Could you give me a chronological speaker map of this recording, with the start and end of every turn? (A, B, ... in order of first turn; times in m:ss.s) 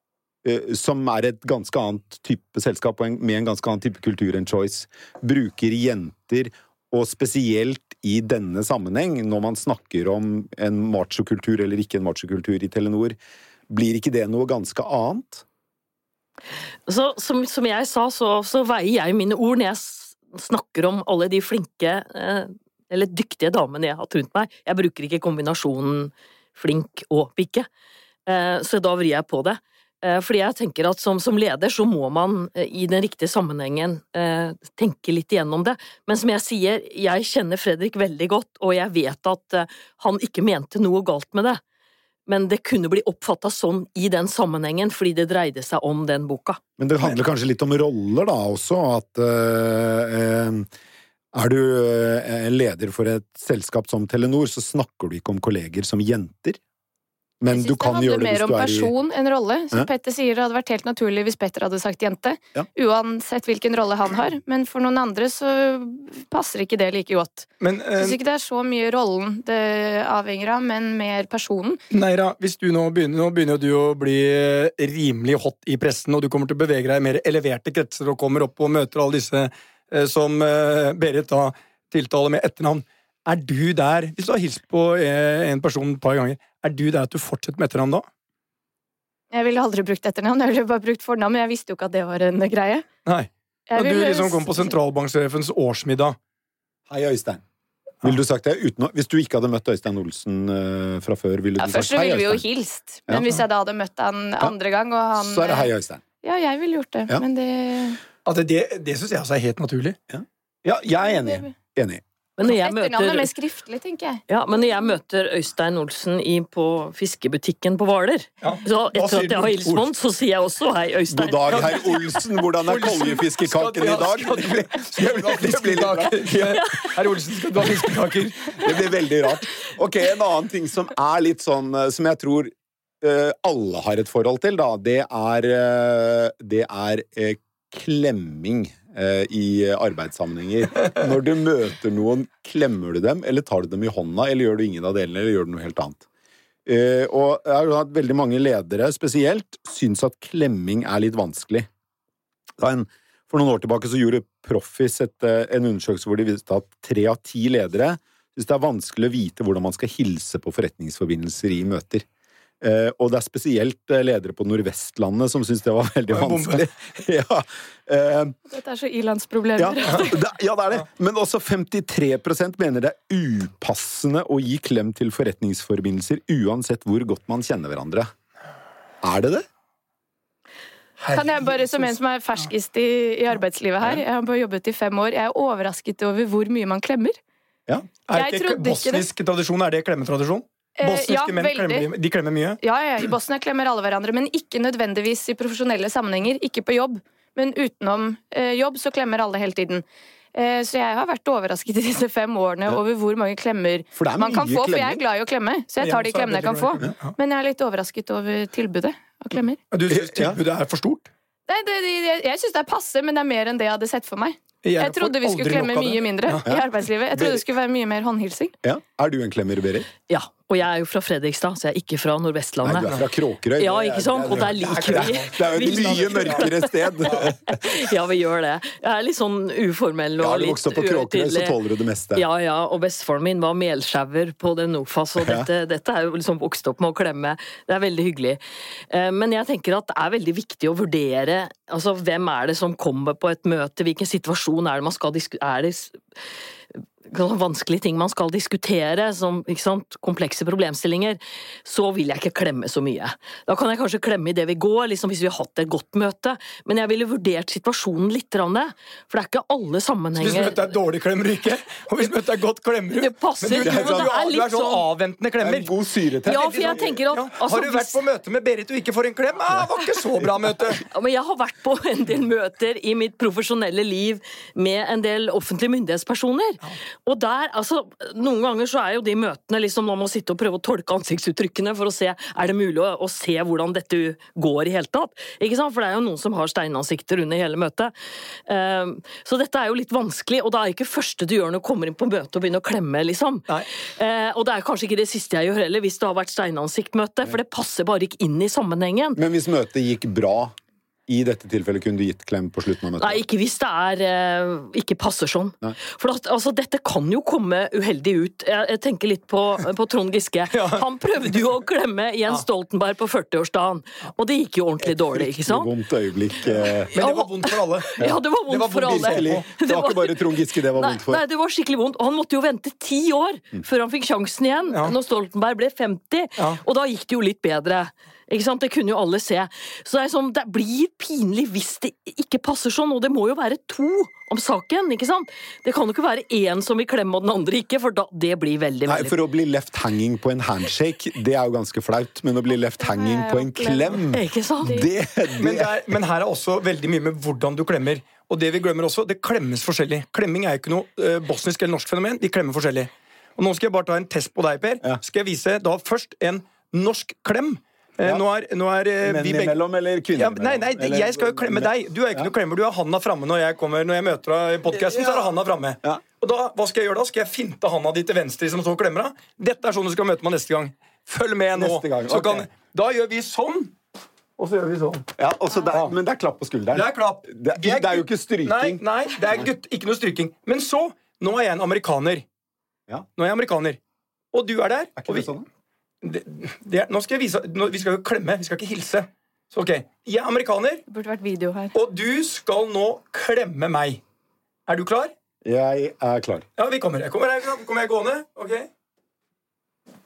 0:00.4-0:13.2 A
0:13.7-0:15.4 A
0:16.9-0:27.7 B
0:28.3-0:41.6 B
0:42.3-0:46.6 B
0:46.8-0:50.7 A
0:51.3-0:56.6 A
0:57.4-0:58.9 A
0:57.5-1:11.8 C
1:07.6-1:08.2 D
1:11.9-1:28.0 D
1:29.3-1:32.9 C
1:33.0-1:36.2 D
1:33.7-1:34.7 C
1:36.9-1:37.4 A
1:38.0-1:42.4 A
1:41.6-1:45.7 C
1:43.1-1:43.4 A
1:45.2-1:46.0 A
1:46.2-1:48.0 C
1:48.2-1:50.0 D
1:50.1-1:52.0 A
1:51.0-1:51.5 C
1:52.4-1:53.3 B
1:52.4-1:54.8 C
1:54.3-2:01.9 B
1:58.4-1:59.8 D
2:01.1-2:06.9 A
2:01.5-2:08.8 D
2:07.6-2:07.9 A
2:08.5-2:26.0 A
2:26.6-2:31.7 A
2:32.6-2:42.0 A
2:42.6-2:48.3 A
2:46.1-2:46.6 D
2:48.5-2:50.2 C
2:49.6-2:58.1 A
2:49.8-2:50.1 D
2:59.0-2:59.4 A
3:01.0-3:02.0 D
3:01.1-3:07.2 C
3:08.1-3:12.6 D
3:08.1-3:09.0 C
3:10.8-3:11.9 C
3:12.6-3:29.6 C
3:24.0-3:25.0 A
3:25.8-3:27.1 D
3:29.7-3:31.1 D
3:29.9-3:30.4 A
3:31.5-3:38.5 C
3:34.6-3:36.4 D
3:36.4-3:37.4 A
3:38.6-3:39.9 A
3:40.1-3:43.0 B
3:42.6-3:47.8 A
3:43.6-3:51.6 B
3:44.6-3:46.5 D
3:50.2-3:52.2 A
3:52.1-4:06.0 B
3:55.2-3:55.5 A
4:06.7-4:20.6 B
4:20.2-4:25.7 D
4:22.9-4:24.8 B
4:23.6-4:24.1 A
4:25.4-4:27.0 A
4:26.2-4:28.0 B
4:26.3-4:30.8 D
4:30.8-4:47.9 B
4:48.4-4:59.2 B
4:59.2-5:00.5 A
5:01.1-5:03.2 A
5:03.0-5:15.7 B
5:10.5-5:10.8 D
5:14.8-5:16.9 A
5:16.8-5:39.2 B
5:16.9-5:19.4 D
5:18.8-5:21.2 A
5:38.9-5:45.7 A
5:42.8-5:44.0 C
5:44.1-5:44.9 B
5:45.4-5:59.6 D
5:59.0-6:02.3 A
6:00.2-6:13.7 D
6:04.7-6:05.3 A
6:11.5-6:12.5 A
6:14.4-6:15.1 D
6:15.2-6:18.8 A
6:16.7-6:22.2 D
6:23.2-6:23.8 D
6:24.3-6:25.3 D
6:25.0-6:25.4 A
6:26.0-6:30.8 D
6:30.9-6:31.7 C
6:31.7-6:34.0 D
6:34.7-6:35.1 D
6:35.4-6:36.4 A
6:36.6-6:38.7 D